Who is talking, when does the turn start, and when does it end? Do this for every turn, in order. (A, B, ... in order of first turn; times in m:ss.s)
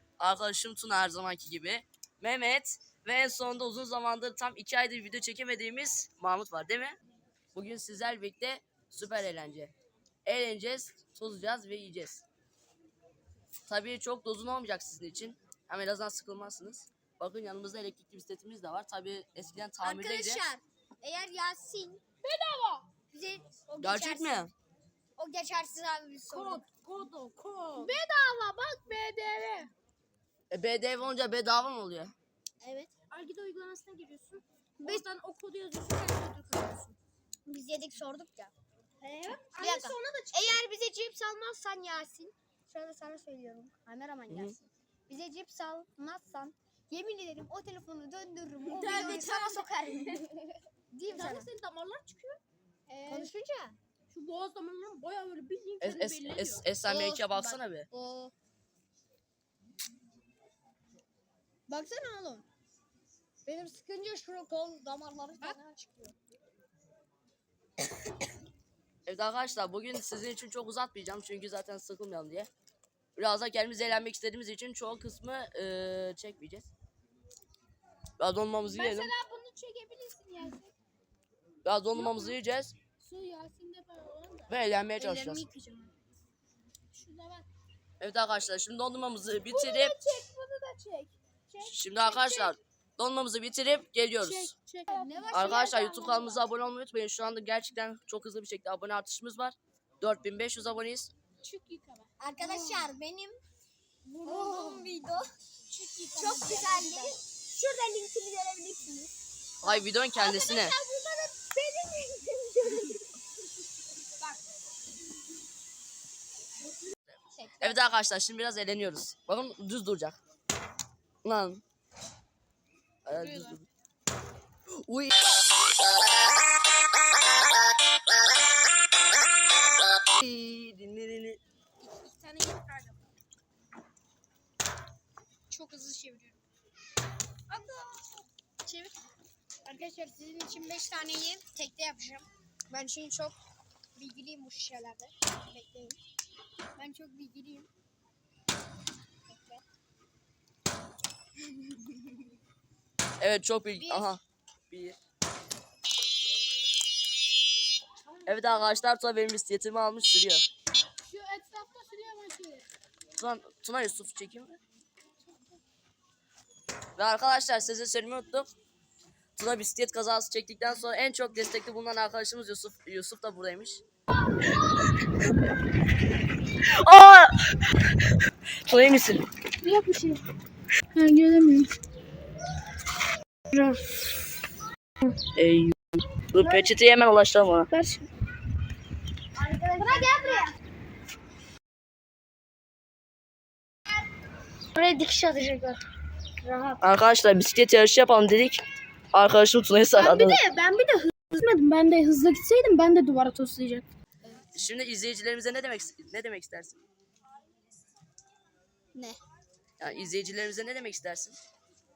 0:00.2-0:07.0 A
0:07.5-0:09.7 A
0:10.2-0:12.2 A
0:13.7-0:20.4 A
0:19.8-0:22.0 B
0:22.2-0:22.9 C
0:23.1-0:24.5 B
0:23.8-0:24.5 A
0:25.2-0:26.6 B
0:26.3-0:29.7 C
0:30.5-0:32.1 A
0:32.6-0:32.9 B
0:33.1-0:37.0 C
0:37.4-0:38.5 B
0:39.0-0:40.6 C
0:39.6-0:51.5 B
0:44.3-0:44.6 A
0:48.6-0:49.7 C
0:51.1-0:52.4 C
0:52.9-0:53.8 B
0:53.0-0:53.3 C
0:54.1-0:56.6 C
0:55.8-0:57.9 A
0:56.8-0:58.3 B
1:01.7-1:02.4 B
1:03.4-1:06.0 B
1:05.4-1:06.1 C
1:09.0-1:12.5 A
1:13.2-1:16.7 A
1:18.2-1:19.1 A
1:18.7-1:20.7 C
1:21.6-1:22.7 A
1:21.9-1:22.4 C
1:23.0-1:24.5 C
1:24.5-1:25.4 A
1:25.0-1:25.9 C
1:26.9-1:27.5 C
1:28.0-1:30.0 A
1:29.5-1:32.5 C
1:31.6-1:34.5 A
1:34.2-1:35.6 C
1:34.9-1:36.4 B
1:35.3-1:41.1 A
1:41.4-1:42.8 C
1:42.2-1:43.4 B
1:44.0-1:44.9 C
1:44.2-1:45.3 B
1:45.7-1:47.2 C
1:46.1-1:49.1 B
1:49.6-1:50.8 A
1:49.6-1:53.1 B
1:57.4-1:57.8 B
1:57.6-2:00.2 A
2:01.2-2:01.6 A
2:03.0-2:03.6 A
2:03.1-2:03.6 C
2:04.7-2:05.3 A
2:10.0-2:11.4 A
2:11.8-2:13.0 C
2:15.5-2:16.4 C
2:17.5-2:17.9 C
2:18.7-2:18.9 C
2:19.6-2:23.4 B
2:24.0-2:26.0 B
2:26.8-2:27.7 B
2:29.3-2:29.6 B
2:33.2-2:35.0 A
2:33.7-2:34.2 B
2:38.2-2:40.4 A
2:41.1-2:42.7 C
2:43.2-2:44.6 A
2:47.0-2:48.5 A
2:49.4-2:53.8 A
2:56.7-2:57.7 A
2:58.6-2:59.2 A
2:59.6-3:00.2 C
3:00.9-3:01.7 C
3:03.5-3:03.8 C
3:05.3-3:05.8 A
3:06.3-3:07.7 A
3:06.4-3:06.7 C
3:07.7-3:08.1 C
3:09.4-3:10.5 B
3:09.8-3:10.5 C
3:14.8-3:15.8 C
3:14.8-3:15.5 B
3:16.4-3:16.8 B
3:16.8-3:18.6 A
3:19.1-3:20.4 A
3:19.9-3:23.9 C
3:24.5-3:26.8 A
3:29.8-3:31.4 A